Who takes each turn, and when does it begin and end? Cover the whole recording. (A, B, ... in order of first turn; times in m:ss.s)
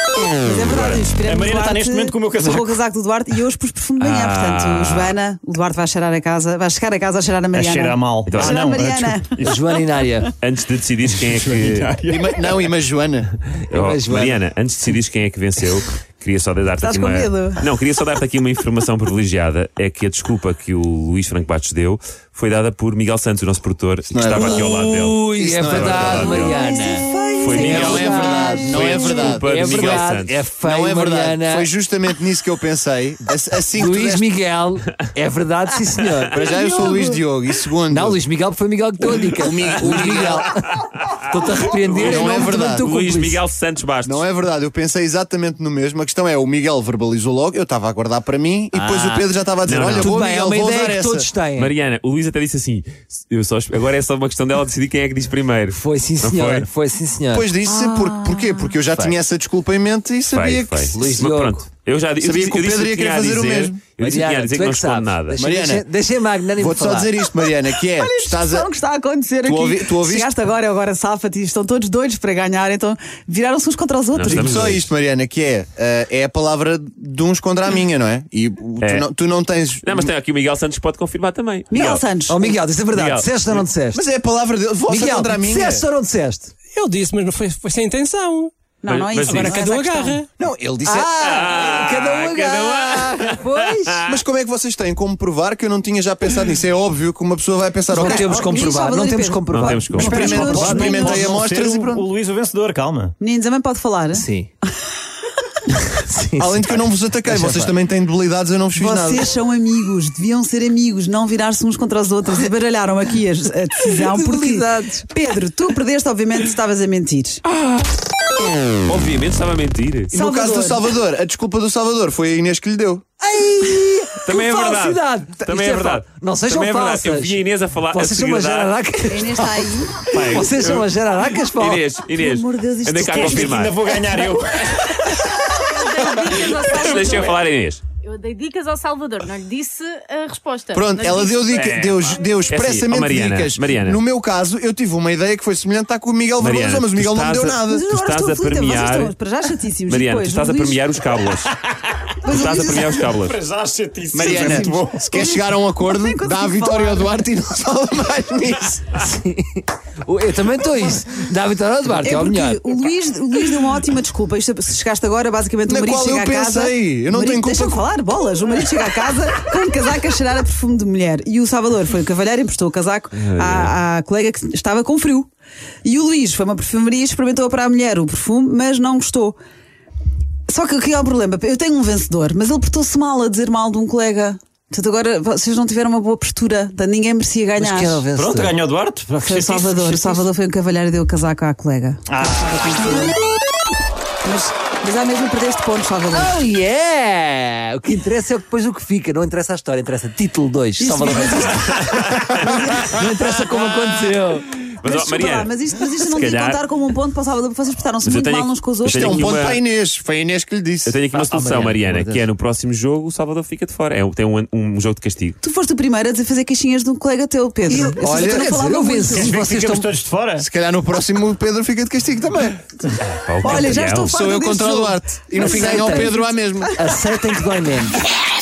0:00.3-0:09.3 A
0:00.6-0:01.0 B
0:01.2-0:02.8 C
0:04.0-0:05.1 B
0:07.5-0:09.6 C
0:08.3-0:08.6 B
0:09.4-0:10.3 D
0:10.4-0:12.0 B
0:11.1-0:12.7 C
0:12.0-0:13.3 E
0:13.7-0:26.8 B
0:13.7-0:14.4 D
0:16.8-0:17.6 A
0:24.1-0:24.7 E
0:24.3-0:31.7 D
0:25.3-0:26.6 E
0:26.2-0:29.4 A
0:27.4-0:30.4 B
0:27.5-0:34.3 E
0:33.7-0:36.4 D
0:36.3-0:38.2 E
0:36.4-0:37.2 A
0:37.9-0:43.4 D
0:39.2-0:40.5 E
0:41.9-0:44.3 B
0:41.9-0:42.9 E
0:44.0-0:51.3 E
0:48.7-0:49.3 D
0:49.6-0:50.2 B
0:50.0-0:51.7 D
0:51.6-0:56.7 B
0:55.7-0:59.2 D
0:57.3-1:01.0 E
1:00.3-1:05.4 B
1:00.9-1:01.7 D
1:02.2-1:03.8 E
1:04.0-1:07.1 D
1:05.4-1:05.9 E
1:06.6-1:08.7 E
1:07.9-1:14.5 A
1:09.4-1:10.3 E
1:14.1-1:14.9 B
1:14.2-1:20.1 E
1:18.8-1:19.1 B
1:19.8-1:22.0 B
1:21.7-1:22.6 A
1:22.3-1:24.0 D
1:22.9-1:23.6 B
1:23.9-1:25.8 E
1:24.9-1:26.5 D
1:26.7-1:28.5 F
1:28.8-1:30.2 A
1:28.9-1:29.6 B
1:29.3-1:30.3 F
1:30.4-1:31.1 E
1:30.8-1:34.0 D
1:31.1-1:34.1 B
1:34.0-1:38.4 E
1:37.9-1:41.1 D
1:38.0-1:41.3 A
1:38.1-1:38.4 C
1:39.5-1:40.1 B
1:39.9-1:43.1 C
1:40.1-1:42.0 E
1:43.2-1:44.3 A
1:44.1-1:44.5 D
1:46.0-1:47.8 D
1:46.4-1:49.3 E
1:48.8-1:57.4 A
1:54.0-1:55.0 D
1:58.9-2:00.1 B
2:00.1-2:03.0 E
2:00.1-2:00.9 A
2:03.2-2:11.8 D
2:04.2-2:08.7 B
2:09.1-2:10.1 A
2:10.1-2:10.5 C
2:10.5-2:10.9 B
2:11.6-2:13.8 B
2:12.1-2:13.6 A
2:13.0-2:15.3 C
2:15.6-2:22.6 G
2:16.2-2:17.8 B
2:20.7-2:27.9 E
2:21.5-2:24.0 B
2:26.4-2:29.2 B
2:27.7-2:30.8 A
2:29.9-2:31.5 B
2:31.7-2:35.1 C
2:32.2-2:33.1 A
2:32.3-2:33.4 B
2:34.1-2:38.9 E
2:34.6-2:37.2 A
2:38.9-2:42.6 D
2:42.0-2:55.3 A
2:45.7-2:47.8 E
2:53.2-2:53.7 B
2:55.8-2:59.4 A
3:00.5-3:08.0 A
3:07.6-3:08.5 D
3:08.2-3:10.3 C
3:09.2-3:13.2 A
3:12.1-3:12.9 C
3:14.2-3:16.3 A
3:16.1-3:24.5 D
3:20.8-3:21.8 A
3:21.9-3:22.3 B
3:24.8-3:26.6 B
3:24.8-3:29.3 A
3:28.0-3:29.6 B
3:28.8-3:31.0 E
3:30.9-3:35.4 B
3:31.1-3:32.3 D
3:35.4-3:39.4 A
3:37.7-3:39.9 D
3:38.0-3:38.5 E
3:39.1-3:40.5 C
3:40.4-3:42.7 E
3:43.0-3:44.2 B
3:43.4-3:46.9 A
3:43.6-3:46.7 E
3:45.5-3:45.8 D
3:46.8-3:48.0 D